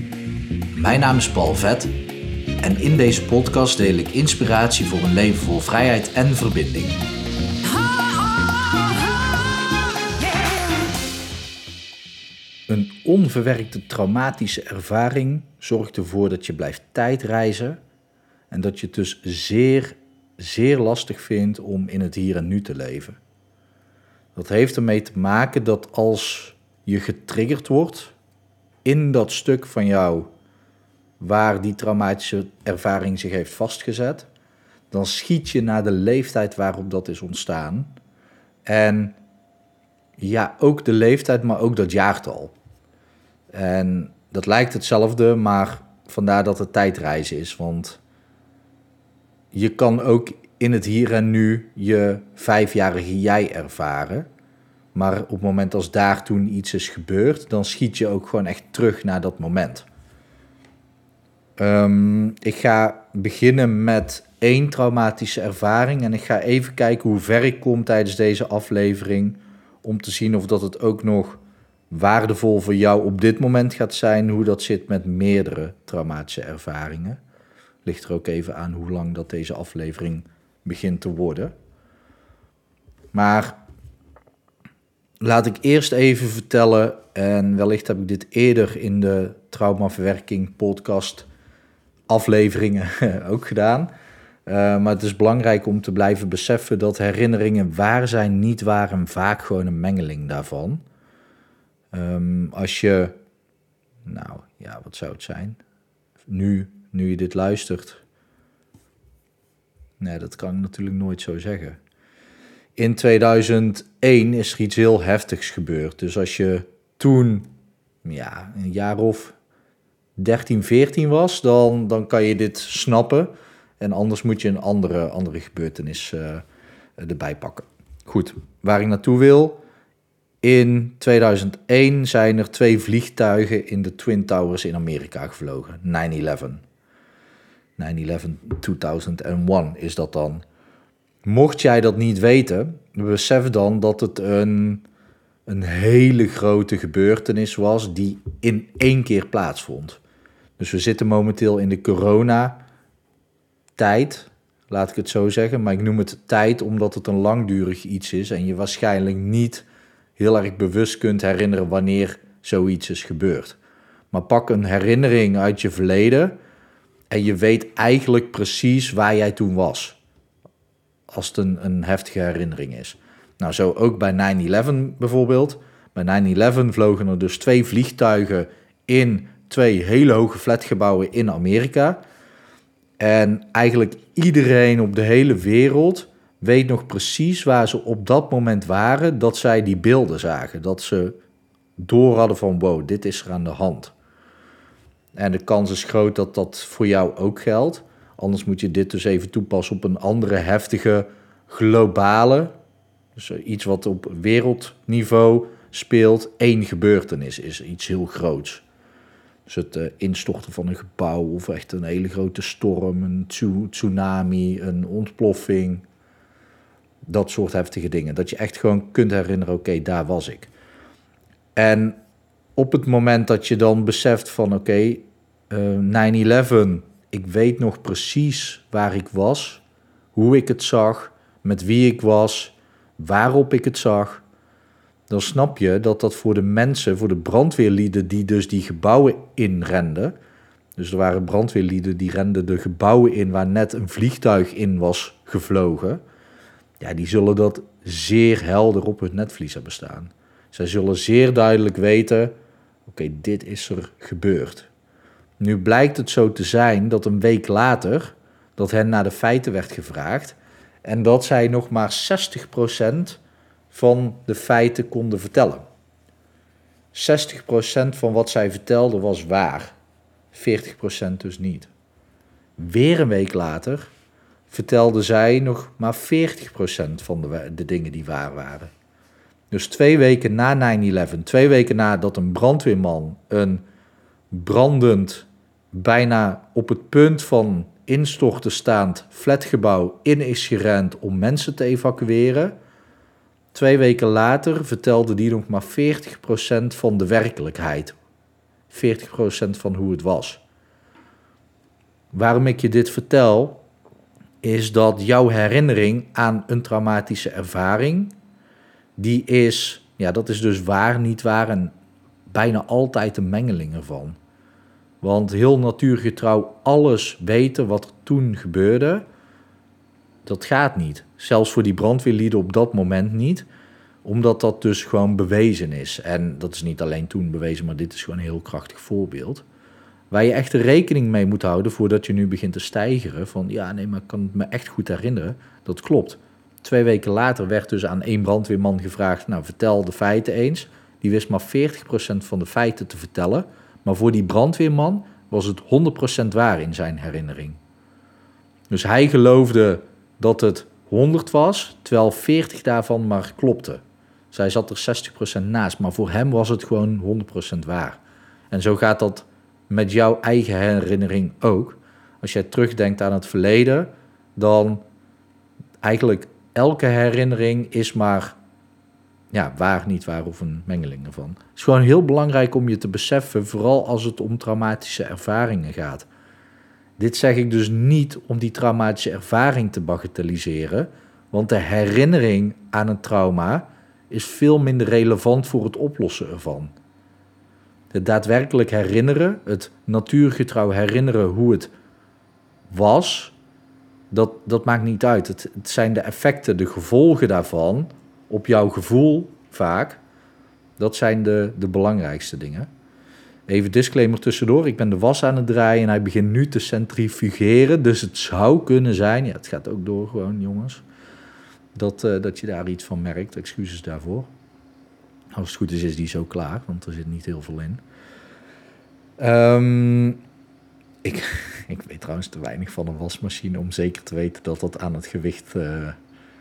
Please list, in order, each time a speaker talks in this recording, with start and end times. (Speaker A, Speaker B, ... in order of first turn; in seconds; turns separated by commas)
Speaker A: 0.8-1.9, Speaker A: 2.6-7.0, Speaker A: 12.7-17.8, Speaker A: 18.5-23.2, Speaker A: 24.4-28.1, Speaker A: 28.9-30.3, Speaker A: 31.2-34.3, Speaker A: 34.9-37.9, Speaker A: 38.7-39.2, Speaker A: 40.2-42.5, Speaker A: 43.5-48.0, Speaker A: 49.5-54.3, Speaker A: 55.0-59.9, Speaker A: 61.6-77.2, Speaker A: 77.8-81.5, Speaker A: 83.1-83.6, Speaker A: 85.2-91.3, Speaker A: 92.1-93.9, Speaker A: 94.5-100.8, Speaker A: 101.9-103.2, Speaker A: 104.0-105.6, Speaker A: 106.3-108.0, Speaker A: 110.0-111.8, Speaker A: 112.8-117.5, Speaker A: 118.0-119.4, Speaker A: 120.2-126.5, Speaker A: 127.0-129.6, Speaker A: 130.4-136.6, Speaker A: 137.8-140.4, Speaker A: 141.2-144.8, Speaker A: 145.5-150.0, Speaker A: 150.6-152.6, Speaker A: 153.8-159.7, Speaker A: 160.2-163.6, Speaker A: 164.1-166.4, Speaker A: 167.1-170.0, Speaker A: 171.1-182.0, Speaker A: 183.0-191.2, Speaker A: 191.8-193.9, Speaker A: 195.2-202.5, Speaker A: 203.2-208.6, Speaker A: 209.5-215.8, Speaker A: 217.1-220.5, Speaker A: 221.6-222.0, Speaker A: 222.6-229.6, Speaker A: 230.2-234.2, Speaker A: 235.1-240.2, Speaker A: 240.8-246.0, Speaker A: 246.8-252.3, Speaker A: 252.9-254.7, Speaker A: 255.4-263.2, Speaker A: 263.7-265.6, Speaker A: 266.9-269.8, Speaker A: 270.3-271.7, Speaker A: 272.6-273.9, Speaker A: 274.5-278.7, Speaker A: 279.5-283.6, Speaker A: 284.3-292.6, Speaker A: 293.5-297.9, Speaker A: 298.7-300.4, Speaker A: 302.1-303.6, Speaker A: 304.4-308.1, Speaker A: 309.0-311.7, Speaker A: 312.3-314.2, Speaker A: 315.0-319.1, Speaker A: 320.2-323.5, Speaker A: 324.1-329.4, Speaker A: 330.1-347.6, Speaker A: 348.7-358.0, Speaker A: 358.5-364.8, Speaker A: 365.8-368.4, Speaker A: 369.3-376.1, Speaker A: 377.0-386.7, Speaker A: 387.9-391.7, Speaker A: 392.7-393.4, Speaker A: 394.1-400.0, Speaker A: 400.8-402.7, Speaker A: 403.5-410.8, Speaker A: 411.8-414.3, Speaker A: 415.4-417.8, Speaker A: 419.2-420.2, Speaker A: 421.0-426.0